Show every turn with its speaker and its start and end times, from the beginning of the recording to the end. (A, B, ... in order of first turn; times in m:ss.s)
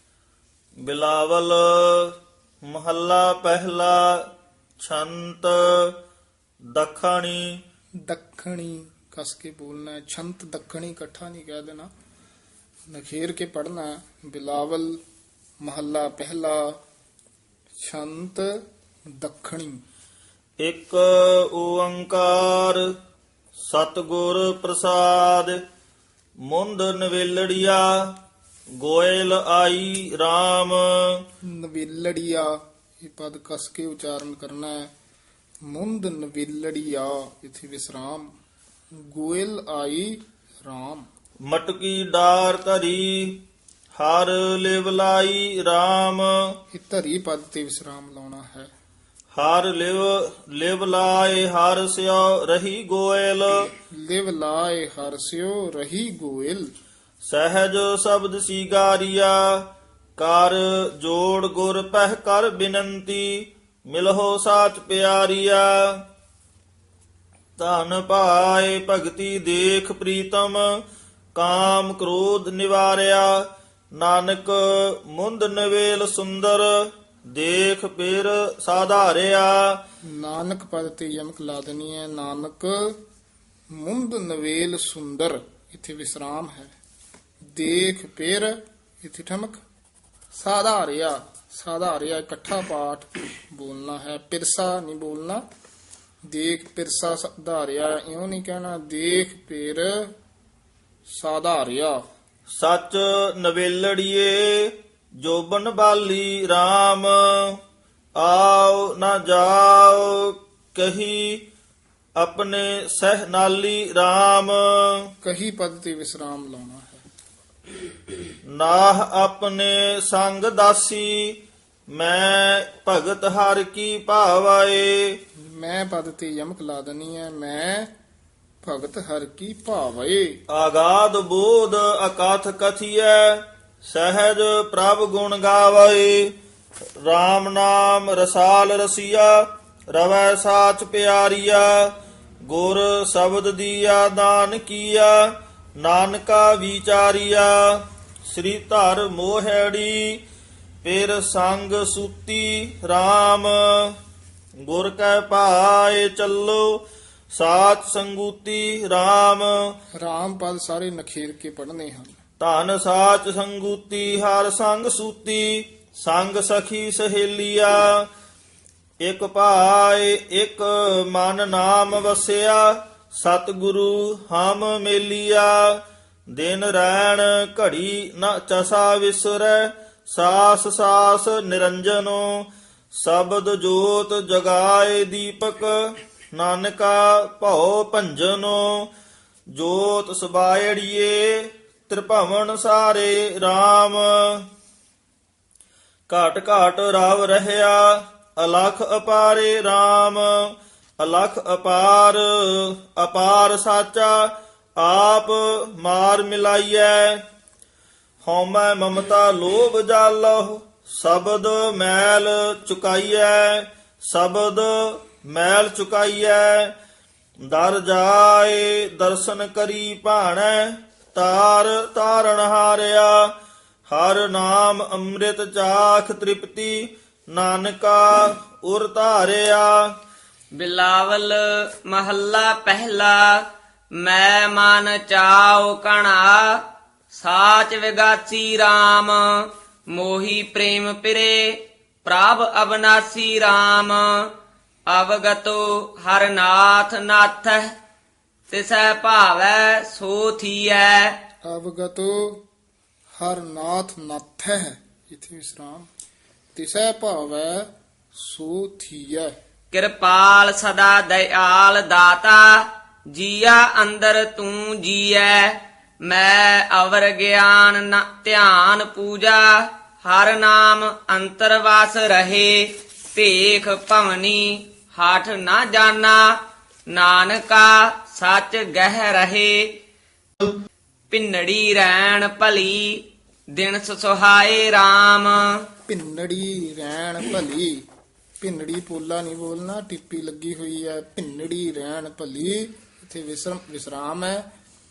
0:00.8-0:04.2 A
0:04.8-0:05.9 A
0:06.7-0:07.6 A
0:08.1-0:11.9 B
0:12.9-0:15.0 B
0:15.6-0:16.8 B
0:17.8-0:18.6 B
0:19.2-0:19.8 B
0:20.6-0:22.8 A
0:23.6-0:25.6 A
0:26.4-0:27.9 A
0:28.8-0:30.9 A
0:31.5-0:34.9 B
0:35.7-0:38.3 B
0:39.1-0:41.1 B
0:41.4-0:43.4 A
0:44.0-0:46.3 A
0:46.7-0:48.7 B
0:49.3-0:53.7 A
0:53.9-0:56.7 B
0:57.2-0:59.4 A
1:00.2-1:05.8 A
1:07.6-1:10.6 A
1:11.4-1:13.4 A
1:14.0-1:16.7 A
1:17.3-1:19.8 A
1:20.1-1:23.0 B
1:23.8-1:26.7 B
1:27.5-1:29.6 B
1:30.4-1:35.4 B
1:36.3-1:40.1 B
1:41.1-1:42.0 B
1:42.6-1:47.4 A
1:48.2-1:51.4 A
1:52.2-1:55.0 A
1:55.2-1:57.0 B
1:58.5-2:01.4 A
2:01.9-2:05.0 A
2:05.5-2:07.9 B
2:08.6-2:10.3 B
2:10.5-2:16.3 A
2:17.0-2:19.4 A
2:19.9-2:21.9 A
2:22.4-2:25.2 A
2:25.8-2:27.6 A
2:28.3-2:30.2 A
2:30.8-2:33.9 A
2:34.6-2:36.8 A
2:37.3-2:39.6 A
2:40.0-2:42.2 B
2:42.4-2:48.0 A
2:49.0-2:55.8 A
2:56.3-3:05.8 A
3:06.3-3:08.9 A
3:09.5-3:14.3 A
3:16.1-3:20.4 A
3:21.0-3:27.2 A
3:28.2-3:36.7 A
3:37.5-3:43.2 A
3:43.9-3:49.8 A
3:50.6-3:53.4 C
3:54.0-4:04.2 C
4:04.9-4:07.7 C
4:08.5-4:11.2 C
4:11.4-4:12.4 B
4:13.2-4:15.9 B
4:16.6-4:19.3 B
4:19.7-4:36.3 C
4:36.9-4:39.7 C
4:41.1-4:43.0 C
4:43.6-4:45.5 C
4:45.9-4:47.8 B
4:48.4-4:54.4 B